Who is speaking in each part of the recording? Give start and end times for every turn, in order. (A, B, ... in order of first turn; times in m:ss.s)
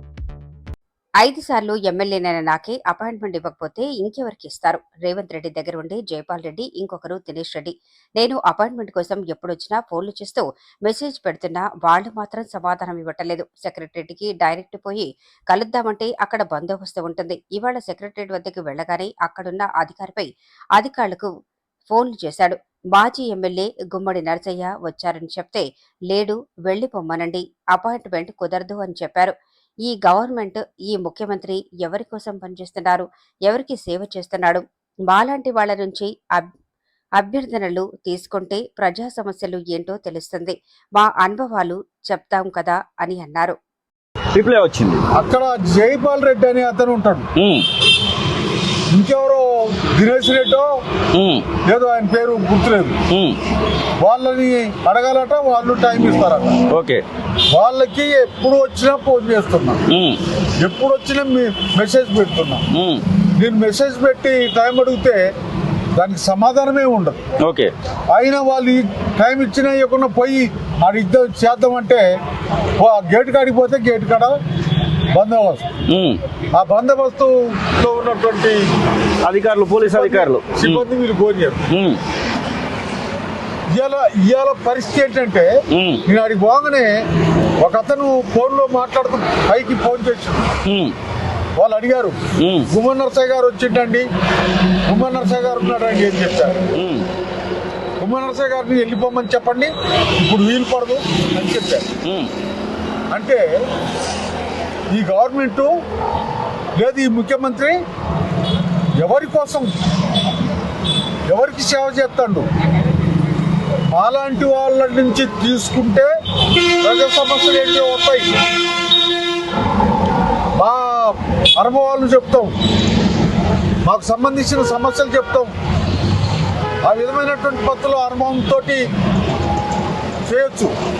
0:01.2-0:21.3 A
0:21.9-0:36.5 A
0:37.2-0:43.6 A
0:44.3-0:45.0 B
0:45.1-0:47.3 C
0:47.4-0:47.6 B
0:48.9-0:50.7 C
0:51.1-0:51.4 B
0:51.6-0:53.0 C
0:53.1-0:53.4 B
0:54.0-0:56.6 C
0:56.7-0:57.0 B
0:57.5-0:59.8 C
0:59.9-1:00.2 B
1:00.6-1:02.6 C
1:02.7-1:03.0 B
1:03.4-1:05.3 C
1:06.0-1:07.2 C
1:07.4-1:07.7 B
1:08.1-1:12.1 C
1:12.8-1:14.3 C
1:15.1-1:15.7 C
1:15.9-1:16.2 B
1:16.5-1:18.7 C
1:19.2-1:20.8 B
1:19.9-1:21.6 C
1:21.7-1:22.0 B
1:23.7-1:25.5 C
1:25.7-1:26.0 B
1:26.0-1:27.0 C
1:27.6-1:30.5 C
1:30.6-1:30.9 B
1:31.6-1:32.2 C
1:32.4-1:32.7 B
1:32.7-1:34.0 C
1:34.9-1:36.6 C
1:36.7-1:37.0 B
1:38.0-1:41.9 C
1:42.0-1:42.3 B
1:43.1-1:43.4 C
1:44.9-1:45.7 C
1:46.8-1:47.8 C
1:49.0-1:49.7 C
1:51.3-1:52.5 C
1:53.9-1:56.1 C
1:56.8-1:58.3 C
2:00.6-2:02.5 C
2:03.8-2:05.5 C
2:06.8-2:08.8 C
2:10.3-2:10.7 C